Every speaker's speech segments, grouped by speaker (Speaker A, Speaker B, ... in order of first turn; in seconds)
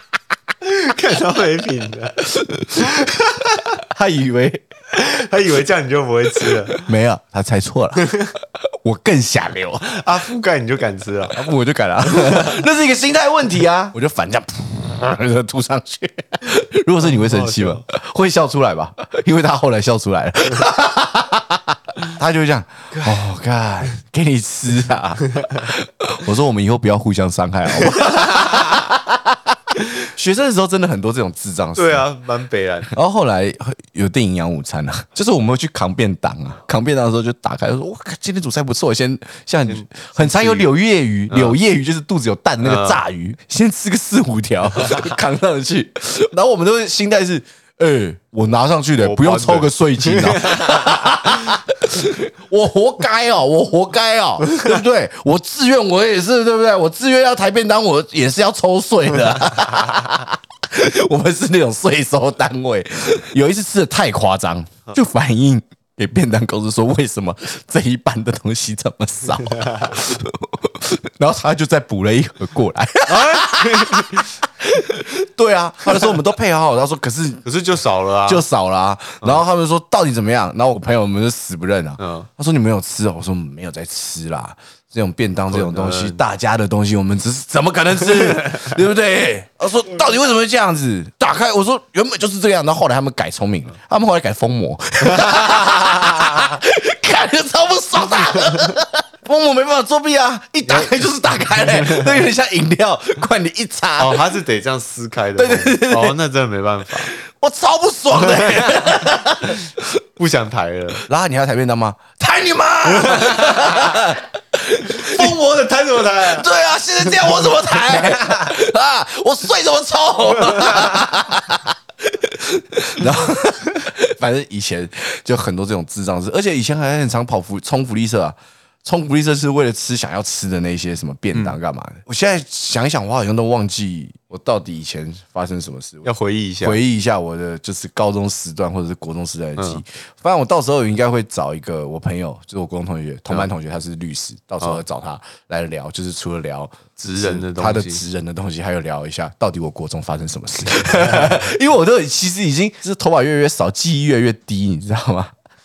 Speaker A: 0.6-3.8, 4.9-6.9, 8.0-8.3, 9.8-11.5, 12.0-12.7, 17.1-17.8, 27.9-28.4, 31.7-32.9, 39.6-40.7, 41.3-41.5, 42.6-43.0, 49.0-51.6, 69.5-70.0, 73.1-74.3, 75.9-76.1, 77.4-78.5, 82.0-82.3, 85.5-86.2, 100.7-102.3, 104.0-107.1, 108.1-111.0, 112.8-114.2, 114.9-116.5, 117.9-118.2, 136.0-136.8, 139.6-139.8, 147.0-148.0, 150.9-151.4
Speaker B: 2.3-2.9, 3.8-4.6, 6.7-10.0, 11.3-32.0, 32.9-77.4, 78.3-104.2, 105.3-106.2, 107.1-109.9, 111.0-115.3, 116.2-136.1, 136.6-155.3